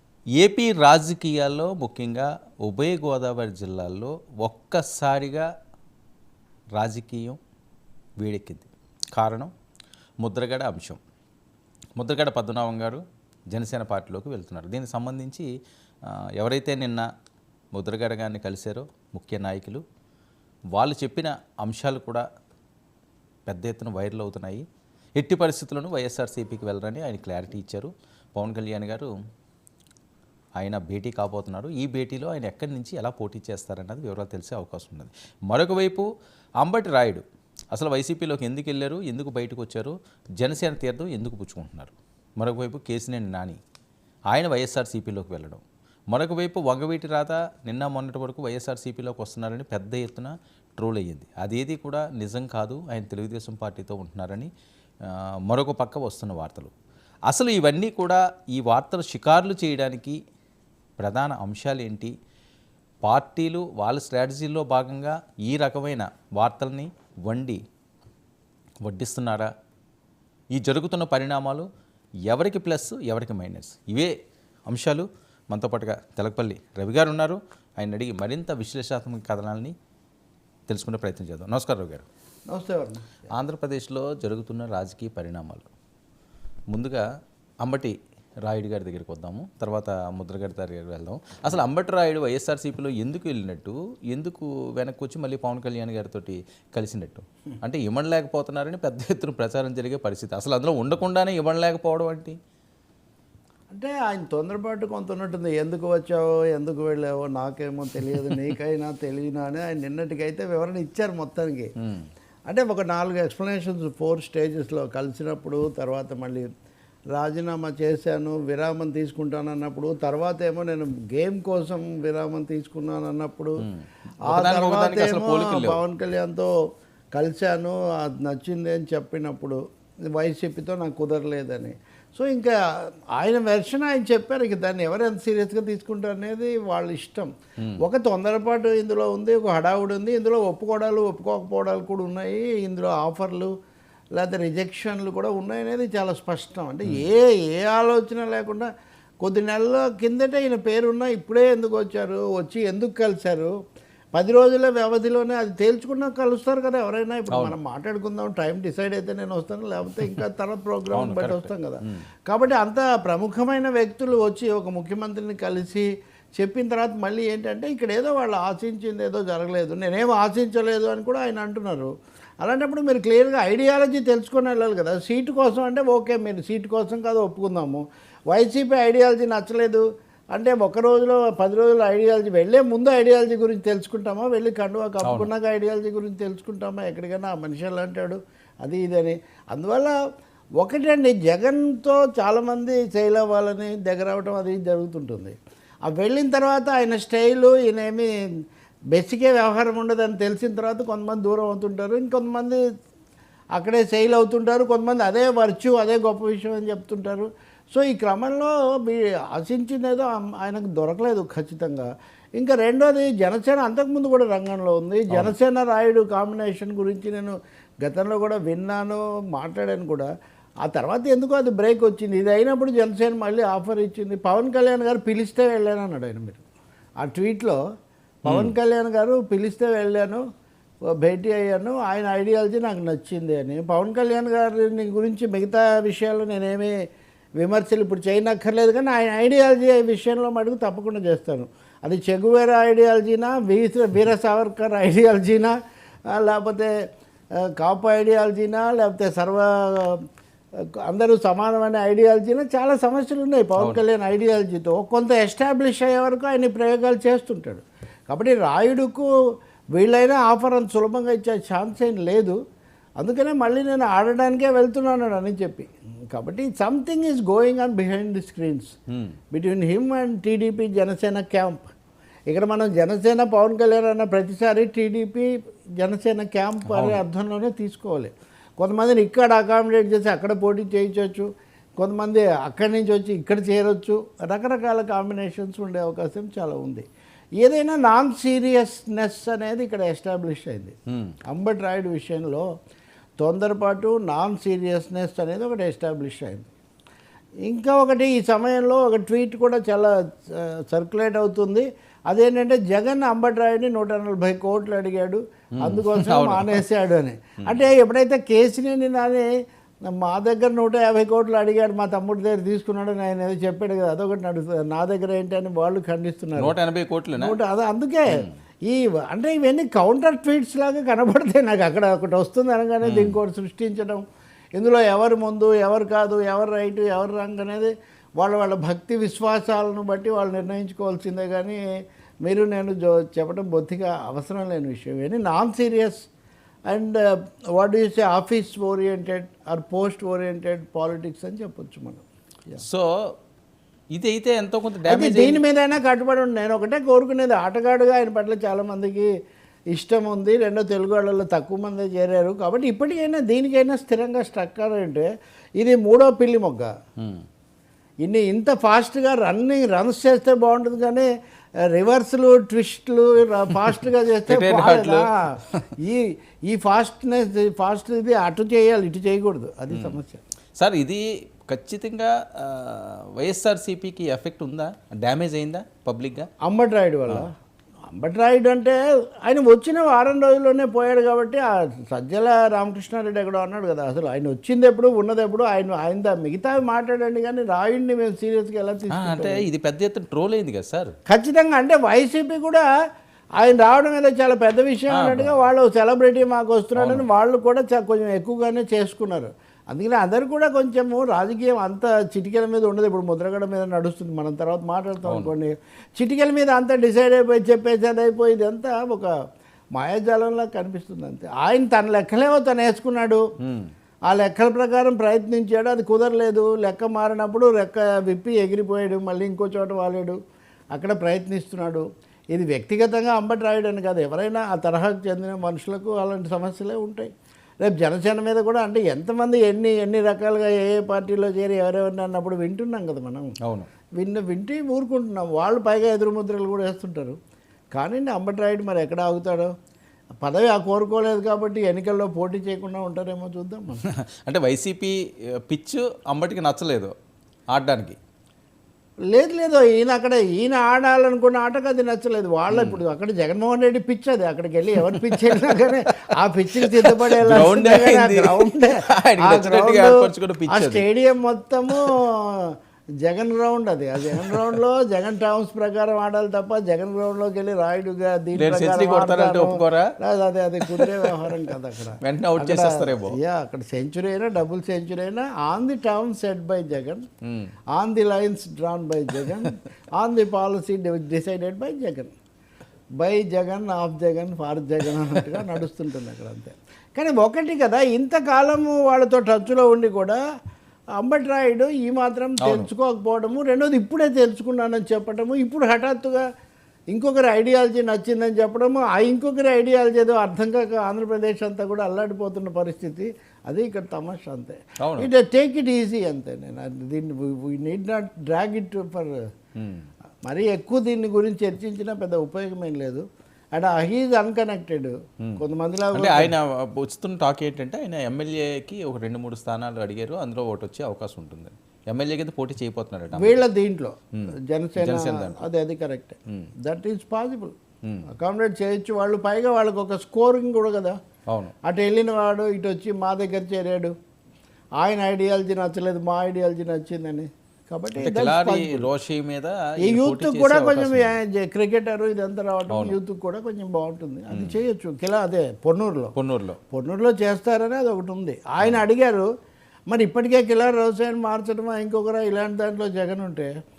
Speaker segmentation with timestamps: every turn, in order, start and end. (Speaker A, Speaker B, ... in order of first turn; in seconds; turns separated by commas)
Speaker A: 0.4-5.5, Speaker A: 6.8-7.4, Speaker A: 8.2-9.5, Speaker A: 10.2-11.0, Speaker A: 12.0-15.5, Speaker A: 16.4-17.1, Speaker A: 17.7-19.8, Speaker A: 20.8-22.2, Speaker A: 23.5-24.6, Speaker A: 25.2-29.1, Speaker A: 30.6-36.1, Speaker A: 36.6-43.6, Speaker A: 44.3-54.5, Speaker A: 55.1-56.7, Speaker A: 57.3-60.2, Speaker A: 61.0-62.1, Speaker A: 63.0-67.6, Speaker A: 68.8-69.5, Speaker A: 70.5-71.7, Speaker A: 72.3-74.1, Speaker A: 74.7-79.7, Speaker A: 80.7-82.1, Speaker B: 82.5-83.0, Speaker A: 83.4-85.7, Speaker A: 86.7-87.0, Speaker A: 87.6-102.4, Speaker B: 103.7-111.7, Speaker B: 112.5-116.5, Speaker B: 117.1-123.6, Speaker A: 123.6-125.8, Speaker B: 124.3-126.5, Speaker B: 127.1-129.6, Speaker B: 130.1-132.6, Speaker B: 133.2-143.5, Speaker B: 144.2-148.7, Speaker B: 149.2-153.5, Speaker B: 154.1-171.9, Speaker A: 160.9-162.0, Speaker B: 172.4-189.9, Speaker A: 185.0-185.3, Speaker B: 190.6-198.1, Speaker B: 198.9-202.6, Speaker B: 203.6-220.1, Speaker B: 220.6-226.4, Speaker B: 227.0-227.6, Speaker B: 228.2-230.2, Speaker A: 228.2-228.5, Speaker B: 231.0-236.8, Speaker B: 237.4-245.5, Speaker B: 246.1-246.7, Speaker B: 247.4-250.0, Speaker B: 250.9-259.1, Speaker A: 253.6-253.8, Speaker B: 259.7-262.4, Speaker B: 263.0-268.7, Speaker B: 269.3-271.7, Speaker B: 272.3-286.9, Speaker A: 276.7-277.0, Speaker B: 287.4-290.8, Speaker B: 291.3-292.4, Speaker B: 293.2-296.5, Speaker B: 297.4-309.3, Speaker A: 305.6-306.6, Speaker B: 309.9-316.5, Speaker A: 316.4-317.4, Speaker B: 317.1-324.0, Speaker A: 322.8-323.2, Speaker B: 324.6-331.6, Speaker B: 332.2-336.1, Speaker B: 336.7-337.0, Speaker B: 337.6-342.6, Speaker A: 342.6-343.1, Speaker A: 343.9-345.4, Speaker B: 344.9-349.1, Speaker B: 349.7-356.7, Speaker B: 358.0-361.1, Speaker B: 361.7-370.2, Speaker A: 364.3-365.7, Speaker A: 369.7-370.0, Speaker A: 370.6-376.3, Speaker B: 376.4-377.3, Speaker B: 377.9-389.4, Speaker A: 388.9-390.9, Speaker B: 391.1-392.6, Speaker B: 393.4-409.1, Speaker A: 394.9-395.3, Speaker A: 396.7-397.1, Speaker A: 405.0-405.3, Speaker B: 409.7-413.2, Speaker A: 413.4-413.7, Speaker B: 414.1-420.2, Speaker B: 420.7-433.3, Speaker B: 434.0-437.2, Speaker B: 437.7-439.5, Speaker B: 440.2-443.8, Speaker A: 443.9-446.9, Speaker A: 447.5-448.0, Speaker B: 449.1-477.0, Speaker A: 452.5-452.8, Speaker A: 454.8-455.8, Speaker A: 456.6-460.8, Speaker A: 464.1-464.4, Speaker A: 468.3-469.9, Speaker A: 470.7-471.3, Speaker A: 472.0-473.2, Speaker A: 477.2-477.5, Speaker B: 477.7-482.1, Speaker B: 483.0-490.2, Speaker B: 491.0-496.2, Speaker A: 492.4-492.7, Speaker B: 496.9-509.1, Speaker A: 504.8-505.1, Speaker A: 509.6-509.9, Speaker B: 510.2-516.3, Speaker A: 515.9-523.4, Speaker B: 523.1-527.5, Speaker A: 524.1-525.4, Speaker B: 528.1-531.0, Speaker A: 531.3-531.5, Speaker B: 531.6-533.9, Speaker B: 534.8-538.9, Speaker A: 538.0-541.2, Speaker B: 539.8-546.1, Speaker A: 542.7-543.0, Speaker A: 544.3-544.6, Speaker A: 546.1-546.6, Speaker B: 546.7-549.3, Speaker B: 549.9-553.5